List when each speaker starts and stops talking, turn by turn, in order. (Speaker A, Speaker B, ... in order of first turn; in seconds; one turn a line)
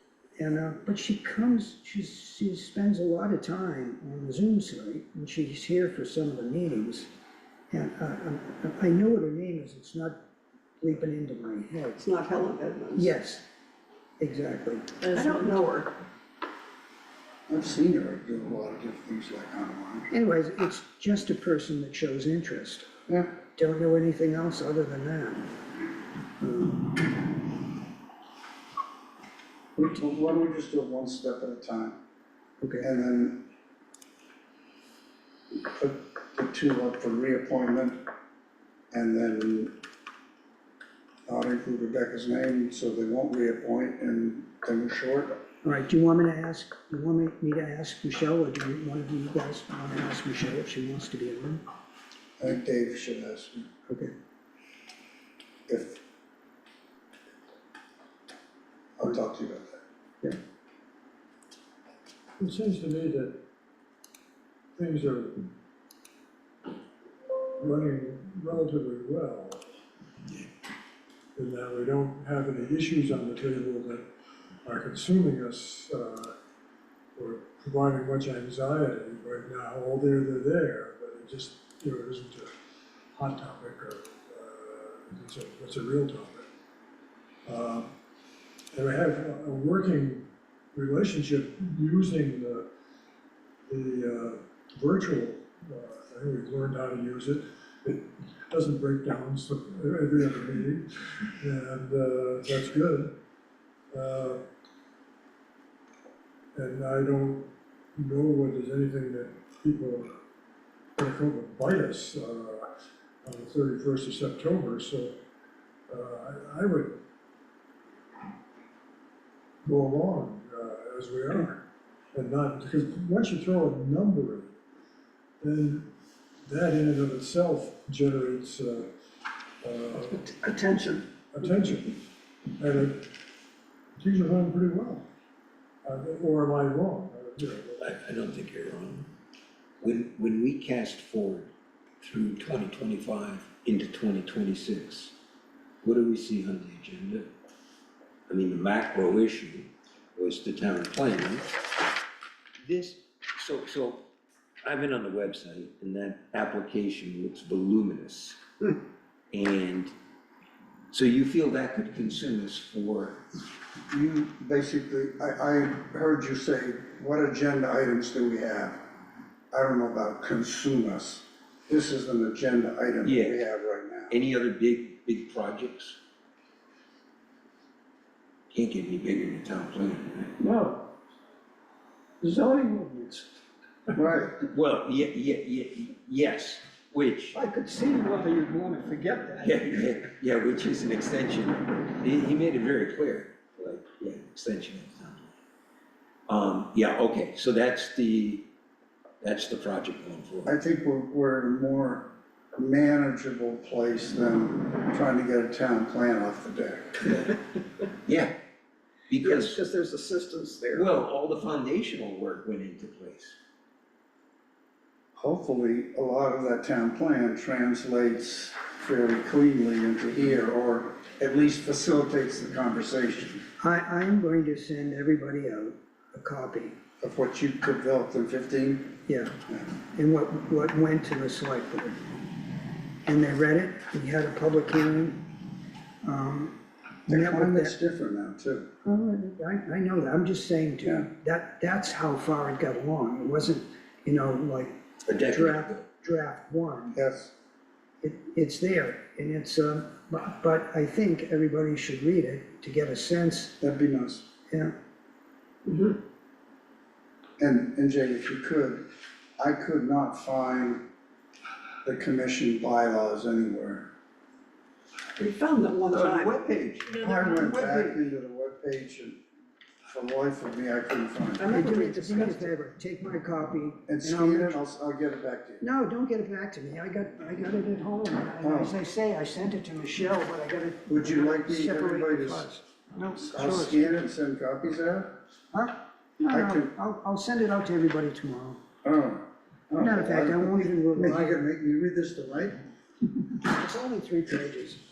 Speaker A: 0.4-7.1
Speaker A: 7.7-10.2
Speaker A: 10.8-12.0
Speaker B: 11.9-13.1
Speaker A: 12.9-13.4
Speaker A: 14.2-15.6
Speaker B: 15.0-15.9
Speaker C: 17.5-20.1
Speaker A: 20.1-22.9
Speaker C: 23.1-23.3
Speaker A: 23.6-25.5
Speaker A: 26.4-27.0
Speaker C: 29.8-32.0
Speaker A: 32.6-32.9
Speaker C: 32.8-33.4
Speaker C: 35.6-38.0
Speaker C: 38.9-39.7
Speaker C: 41.3-45.4
Speaker A: 45.6-51.6
Speaker C: 52.4-53.7
Speaker A: 53.9-54.1
Speaker C: 55.7-56.0
Speaker C: 59.0-59.8
Speaker D: 62.4-63.4
Speaker D: 64.8-65.5
Speaker D: 67.6-69.6
Speaker D: 71.3-74.1
Speaker D: 74.6-76.3
Speaker D: 77.2-82.5
Speaker D: 83.1-86.5
Speaker D: 87.5-87.9
Speaker D: 88.7-92.7
Speaker D: 93.7-103.2
Speaker D: 103.9-104.4
Speaker D: 106.5-110.1
Speaker D: 111.0-112.7
Speaker D: 113.2-115.2
Speaker D: 115.9-117.0
Speaker D: 119.6-124.5
Speaker D: 125.4-125.9
Speaker D: 126.5-128.9
Speaker D: 129.6-130.2
Speaker A: 130.4-131.0
Speaker D: 131.3-132.0
Speaker D: 132.6-133.1
Speaker D: 134.0-135.1
Speaker D: 135.8-137.8
Speaker E: 137.8-139.1
Speaker E: 139.8-145.2
Speaker E: 145.8-147.3
Speaker E: 148.3-151.6
Speaker E: 152.6-154.0
Speaker E: 154.6-158.4
Speaker E: 159.3-159.9
Speaker E: 160.9-163.2
Speaker C: 163.9-168.8
Speaker C: 169.5-174.2
Speaker E: 173.0-173.4
Speaker E: 174.1-176.0
Speaker E: 178.5-180.3
Speaker B: 180.4-180.9
Speaker B: 182.2-183.2
Speaker A: 182.5-183.2
Speaker C: 183.9-184.5
Speaker E: 184.4-187.4
Speaker B: 187.9-188.5
Speaker A: 188.4-189.3
Speaker B: 189.2-189.4
Speaker E: 189.4-195.3
Speaker E: 196.3-198.4
Speaker E: 199.2-200.5
Speaker C: 200.4-207.3
Speaker E: 208.0-208.3
Speaker E: 209.1-209.6
Speaker B: 209.2-211.0
Speaker E: 210.7-213.4
Speaker C: 215.2-223.4
Speaker A: 223.6-226.8
Speaker C: 227.0-229.7
Speaker A: 229.1-229.4
Speaker A: 229.9-232.1
Speaker A: 233.0-235.4
Speaker A: 236.0-236.6
Speaker C: 237.1-238.7
Speaker A: 237.1-237.7
Speaker A: 238.8-246.9
Speaker E: 245.1-245.8
Speaker C: 246.9-247.3
Speaker A: 248.0-253.6
Speaker C: 253.6-254.3
Speaker A: 254.5-254.7
Speaker B: 255.7-256.0
Speaker C: 257.4-258.9
Speaker C: 259.4-260.9
Speaker C: 261.8-263.9
Speaker B: 265.1-266.4
Speaker E: 265.8-267.9
Speaker C: 267.0-269.2
Speaker B: 267.0-267.7
Speaker C: 269.9-271.5
Speaker B: 271.4-272.5
Speaker A: 271.5-274.6
Speaker C: 273.9-275.6
Speaker A: 275.6-284.0
Speaker C: 278.4-278.8
Speaker C: 280.9-282.5
Speaker C: 283.2-285.1
Speaker A: 285.5-288.6
Speaker C: 286.3-286.7
Speaker C: 288.8-292.6
Speaker A: 289.8-291.4
Speaker A: 293.4-294.8